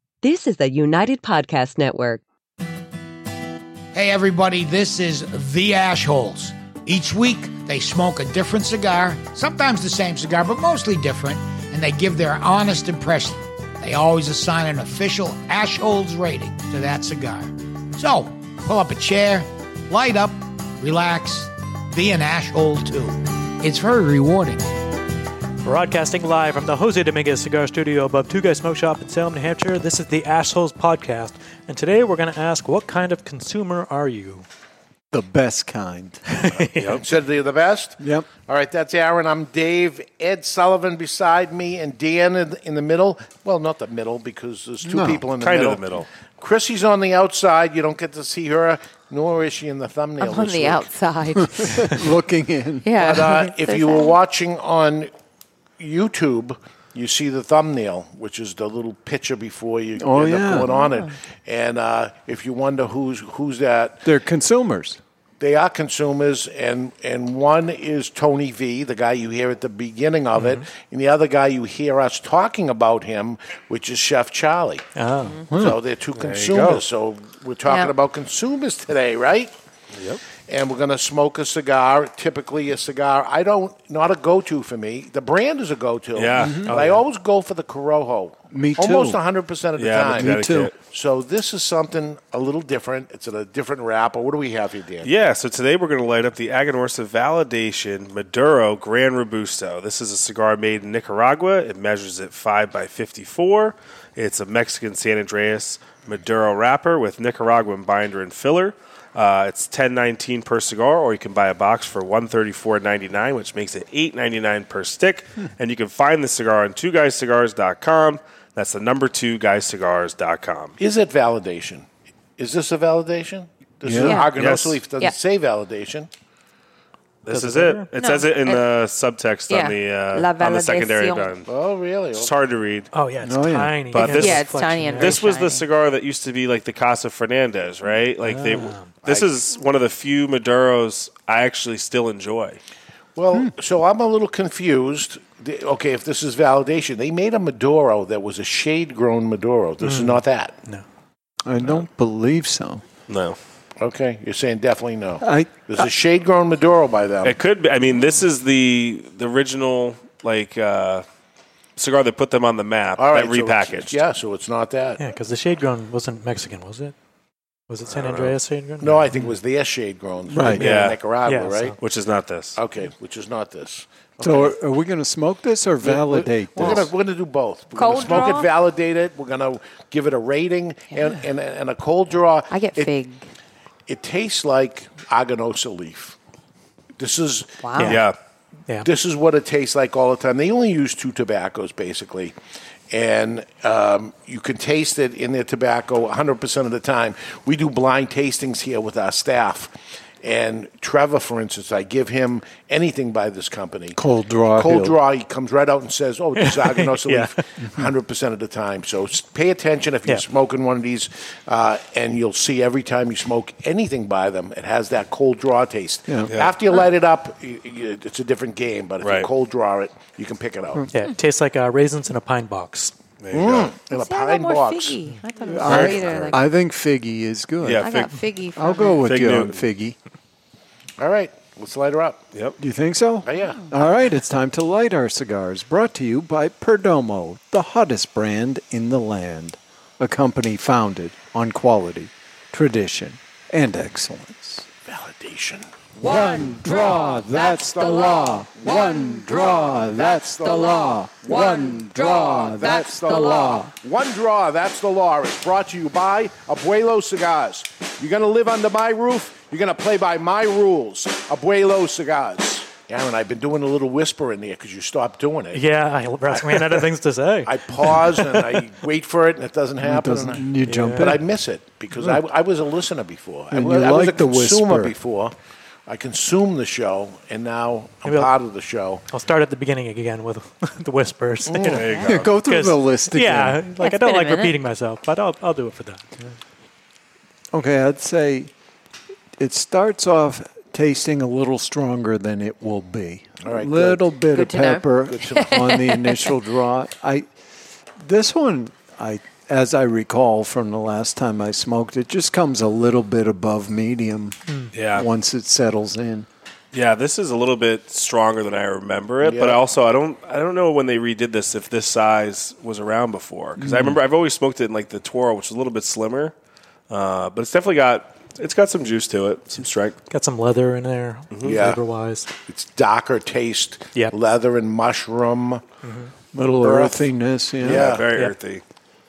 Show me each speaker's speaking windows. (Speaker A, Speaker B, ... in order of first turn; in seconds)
Speaker A: 0.2-2.2
Speaker B: 3.9-24.7
Speaker C: 25.6-34.4, 36.3-37.0, 70.4-70.6, 75.0-75.4, 86.7-87.0, 127.3-127.9, 132.9-135.3, 138.2-138.9, 149.8-150.8, 165.0-166.9, 167.7-169.3, 171.2-171.8, 187.8-188.0, 206.4-207.3, 220.9-222.9, 265.5-268.4, 270.6-271.2, 278.0-278.3, 279.1-286.3, 320.1-322.3, 325.8-326.1
Speaker D: 35.1-36.2, 38.0-38.3, 44.8-45.2, 51.5-52.9, 60.0-60.9, 64.0-65.0, 75.5-75.8, 86.3-86.8, 88.5-89.2, 90.1-90.7, 123.8-124.2, 133.2-133.8, 151.4-152.8, 155.2-155.9, 170.3-170.7, 174.2-176.8, 203.9-205.0, 225.4-227.9, 228.5-229.9, 232.6-244.7, 246.0-253.7, 269.8-271.2, 271.9-272.2, 273.5-274.9, 282.1-283.6, 287.5-288.5, 289.4-297.2, 298.0-304.4, 304.9-306.3, 313.6-314.0, 326.3-327.9
Speaker E: 36.6-50.9, 53.0-55.1, 55.8-64.1, 65.4-74.8, 75.5-79.5, 80.5-95.1, 120.8-121.9, 122.4-126.1, 131.5-132.3, 143.2-150.5, 153.8-157.3, 163.0-165.0, 168.8-171.8, 172.6-174.5, 175.8-182.9, 183.9-186.2, 187.0-187.7, 188.8-192.3, 192.9-204.0, 204.5-220.8, 223.3-225.0, 225.6-226.4, 231.0-232.2, 233.2-233.6, 244.8-246.2, 247.8-248.9, 249.4-265.6, 267.4-275.3, 275.9-279.0, 281.4-281.8, 293.4-294.1, 295.1-295.3, 309.2-309.6, 321.4-321.8, 322.4-325.6, 326.6-327.0, 327.6-328.1
Speaker F: 36.8-37.0, 45.4-46.0, 76.1-76.8, 79.9-80.2, 86.1-87.0, 89.8-90.7, 95.0-120.8, 124.3-124.8, 127.2-131.5, 132.1-132.9, 133.9-134.4, 134.9-142.6, 153.1-153.4, 157.2-161.0, 161.8-164.0, 167.9-168.3, 170.6-171.0, 171.8-172.6, 187.8-188.1, 216.3-216.5, 219.0-219.3, 223.2-223.7, 225.7-226.0, 227.6-228.1, 229.0-229.7, 281.7-282.3, 304.7-305.1, 306.7-316.3, 316.9-319.9, 321.3-321.6, 327.6-328.6
Speaker G: 50.2-52.0, 52.8-54.1, 60.7-61.1, 77.7-77.9, 124.0-124.3, 127.9-128.7, 129.5-131.3, 134.0-135.7, 176.6-176.9, 177.7-178.5, 182.5-183.2, 187.6-188.0, 223.9-226.4, 227.8-229.0, 251.8-252.8, 283.8-284.5, 294.3-296.3